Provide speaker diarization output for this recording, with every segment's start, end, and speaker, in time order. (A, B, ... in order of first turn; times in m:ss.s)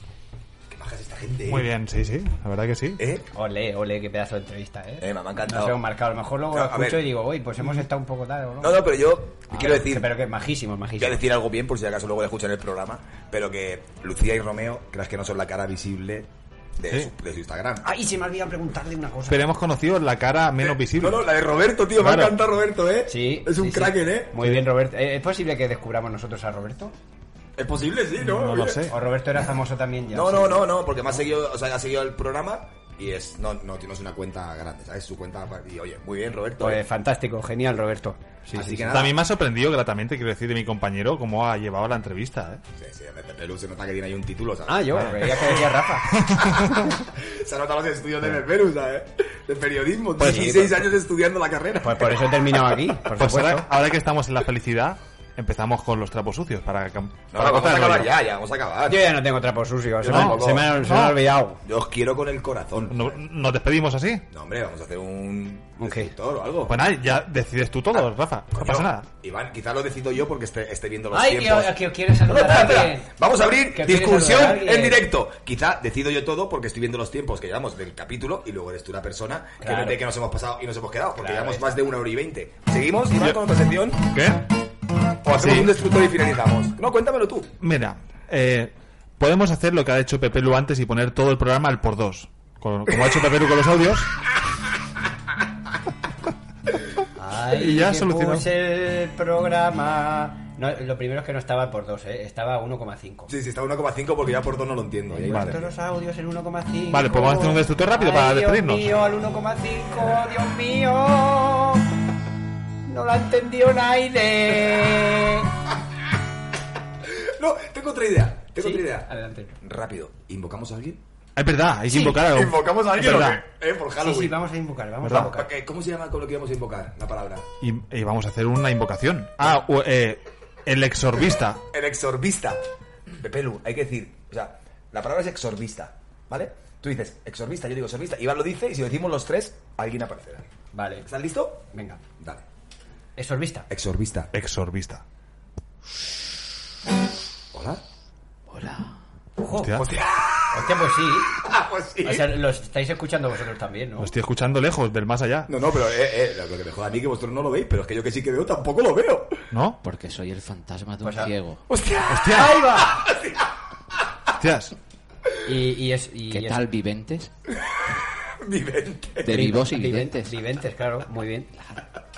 0:00.7-0:01.7 A
0:01.5-0:03.0 B
0:03.0-0:03.2 A
0:03.3-0:08.8 C
0:05.0-0:05.8 A
0:06.5-0:07.1 A
0:08.6-0:10.1 A
0:09.5-0:11.2 C
0:11.0-0:17.8 A
0:17.8-0:19.4 C
0:19.3-0:21.2 B
0:20.6-0:24.3 A
0:22.0-0:22.4 B
0:23.1-0:26.9 C
0:27.6-0:28.9 A
0:28.2-0:28.9 B
0:28.9-0:30.8 C
0:30.1-0:36.8 A
0:36.6-0:39.0 C
0:38.5-0:39.2 A
0:38.9-0:42.6 B
0:42.8-0:45.6 A
0:44.7-0:46.1 C
0:45.0-0:45.4 B
0:46.1-0:46.9 B
0:47.0-0:52.5 A
0:50.2-0:50.9 C
0:51.8-0:53.7 C
0:53.2-0:58.1 B
0:57.3-0:59.1 A
0:58.9-1:01.6 C
1:00.0-1:00.8 A
1:00.1-1:01.2 B
1:01.6-1:03.2 A
1:02.9-1:04.2 B
1:04.3-1:06.9 A
1:05.8-1:06.1 C
1:06.7-1:09.1 B
1:07.9-1:24.1 A
1:11.1-1:13.1 C
1:13.7-1:15.0 C
1:19.6-1:20.0 C
1:21.2-1:21.8 C
1:24.1-1:24.4 B
1:25.2-1:27.5 A
1:25.3-1:25.7 B
1:27.6-1:34.1 B
1:37.1-1:43.3 C
1:37.5-1:38.4 B
1:43.3-1:45.7 A
1:45.1-1:51.9 C
1:45.3-1:45.5 B
1:46.9-1:49.0 B
1:52.9-1:55.5 C
1:57.0-1:59.1 A
1:58.6-1:59.5 C
1:59.6-2:01.0 A
2:01.4-2:03.4 B
2:01.9-2:04.4 A
2:04.0-2:05.5 C
2:05.0-2:05.3 B
2:05.1-2:07.5 A
2:07.6-2:11.6 B
2:11.7-2:12.6 A
2:13.2-2:20.5 A
2:20.7-2:21.1 C
2:21.0-2:21.6 A
2:21.7-2:22.0 C
2:23.2-2:23.7 C
2:23.7-2:24.3 A
2:24.3-2:25.0 B
2:27.5-2:27.8 A
2:28.5-2:29.0 D
2:29.4-2:29.8 C
2:29.6-2:29.9 B
2:29.8-2:32.4 A
2:30.5-2:31.4 C
2:32.0-2:34.1 C
2:34.0-2:35.5 B
2:35.5-2:39.4 A
2:39.5-2:39.8 B
2:39.8-2:41.6 D
2:41.0-2:41.3 C
2:41.7-2:43.6 A
2:42.1-2:42.6 B
2:42.3-2:43.0 C
2:44.4-2:44.7 B
2:45.4-2:46.6 C
2:46.3-2:47.3 D
2:47.6-2:49.5 A
2:49.2-2:50.3 D
2:49.3-2:51.5 C